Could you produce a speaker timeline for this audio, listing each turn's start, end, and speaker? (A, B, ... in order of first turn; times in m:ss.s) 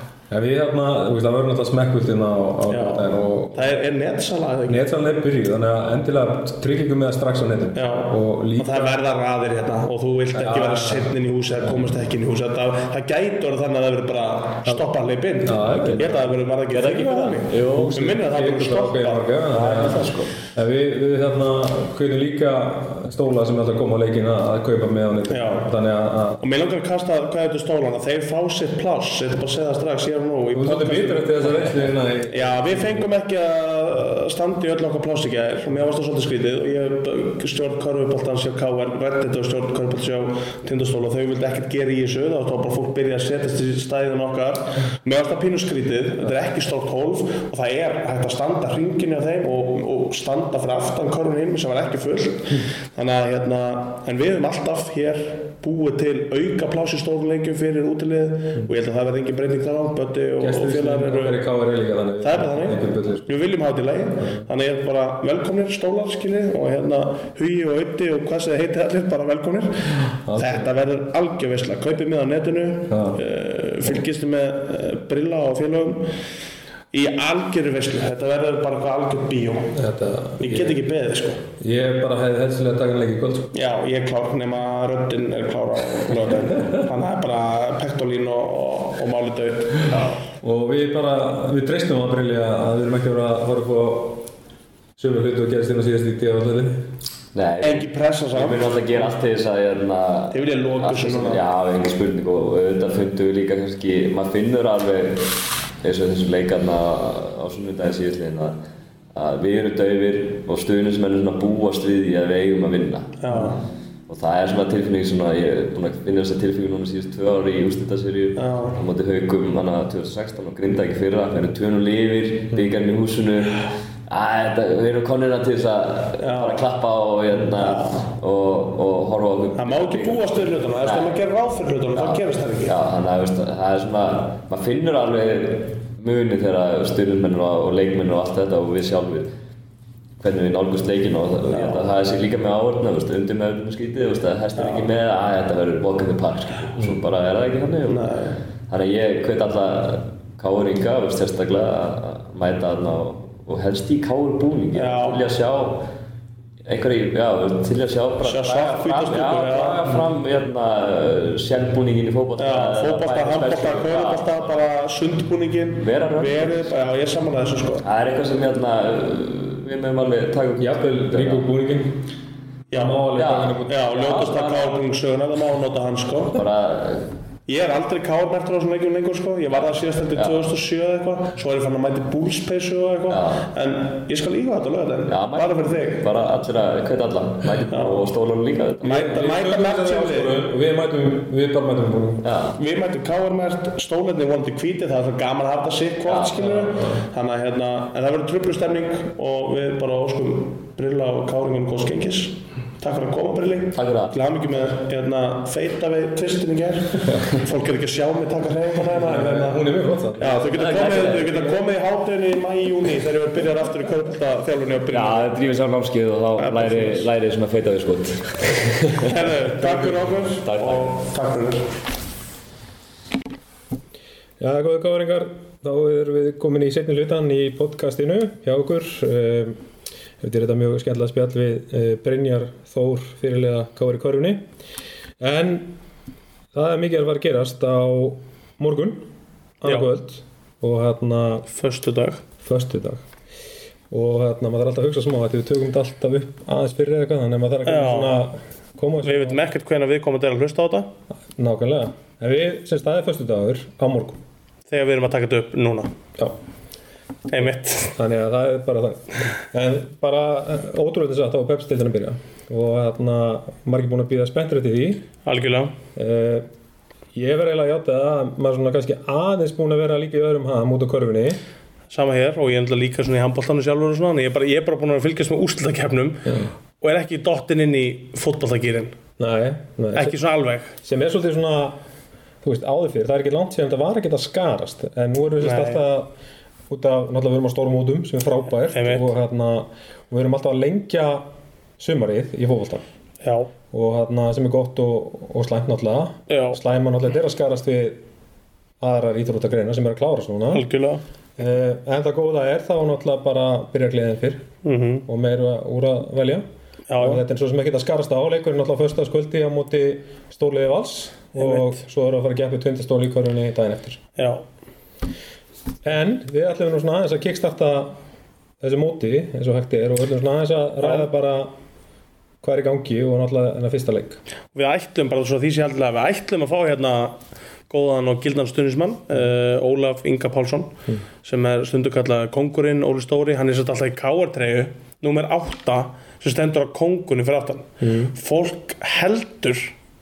0:00.3-0:03.7 A
0:02.7-0:04.8 B
0:04.7-0:09.0 A
0:07.7-0:20.3 B
0:10.3-0:11.1 A
0:15.4-0:16.1 A
0:15.6-0:18.0 C
0:17.7-0:26.4 A
0:25.3-0:25.7 B
0:26.4-0:31.8 B
0:30.5-0:33.1 A
0:32.3-1:01.4 B
1:00.4-1:03.3 A
1:02.2-1:16.1 B
1:04.2-1:04.4 A
1:10.2-1:10.7 A
1:12.9-1:13.2 A
1:16.9-1:19.8 B
1:19.7-1:20.8 A
1:20.4-1:21.4 B
1:21.6-1:23.5 A
1:23.5-1:30.2 B
1:30.4-1:34.3 A
1:35.0-1:36.8 A
1:37.3-1:48.6 C
1:37.6-1:39.1 B
1:40.3-1:41.4 B
1:49.1-1:53.6 C
1:53.2-1:53.6 B
1:54.1-2:11.2 C
1:58.4-1:58.8 B
2:06.2-2:06.6 B
2:07.5-2:08.1 B
2:09.6-2:12.8 B
2:11.9-2:19.3 C
2:20.2-2:28.1 C
2:21.5-2:21.8 B
2:24.6-2:24.9 B
2:27.9-2:28.4 B
2:28.7-2:35.9 C
2:34.7-2:35.2 B
2:36.6-2:44.6 C
2:38.2-2:40.0 B
2:42.4-2:47.8 B
2:45.8-2:46.7 C
2:47.8-2:51.5 C
2:50.6-2:52.0 A
2:52.7-2:53.1 B
2:52.7-2:53.7 A
2:53.1-2:54.8 C
2:53.6-2:56.4 B
2:56.3-2:57.1 C
2:57.5-3:06.1 B
3:00.1-3:00.5 C
3:03.1-3:03.5 C
3:05.1-3:09.2 C
3:07.7-3:08.1 B
3:08.8-3:10.4 B
3:08.9-3:12.3 A
3:12.2-3:12.6 C
3:12.6-3:29.7 B
3:16.0-3:16.7 C
3:23.7-3:24.2 C
3:28.9-3:30.4 A
3:30.2-3:35.3 B
3:30.4-3:31.6 C
3:34.9-3:41.0 C
3:36.4-3:37.1 B
3:39.0-3:41.7 B
3:44.4-3:49.6 A
3:50.2-3:54.4 A
3:55.2-3:55.8 A
3:56.5-3:59.1 A
3:59.6-4:01.5 A
4:01.5-4:02.2 B
4:02.4-4:03.0 A
4:03.9-4:09.4 A
4:07.6-4:08.3 B
4:09.0-4:10.9 B
4:11.3-4:14.2 A
4:14.7-4:15.9 B
4:17.3-4:18.0 B
4:18.0-4:25.0 A
4:25.2-4:25.7 B
4:26.0-4:26.5 A
4:27.1-4:31.4 A
4:31.9-4:36.3 B
4:36.2-4:36.5 A
4:36.8-4:39.0 B
4:39.2-4:40.2 A
4:39.9-4:40.7 B
4:40.8-4:41.8 A
4:42.4-4:46.1 A
4:45.4-4:45.8 B
4:46.7-4:51.2 A
4:48.7-4:49.1 B
4:51.8-4:52.8 A
4:53.2-4:53.5 B
4:53.7-4:58.0 A
4:56.3-4:56.6 B
4:58.8-5:00.7 A
5:00.5-5:01.0 B
5:01.4-5:04.5 A
5:04.6-5:05.0 B
5:05.0-5:06.4 A
5:06.9-5:07.2 B
5:07.0-5:14.0 A
5:11.3-5:11.8 B
5:14.2-5:14.4 B
5:15.8-5:18.0 A
5:18.6-5:21.5 A
5:22.4-5:24.2 A
5:24.5-5:27.2 B
5:27.7-5:30.7 B
5:31.2-5:39.7 B
5:37.8-5:38.1 A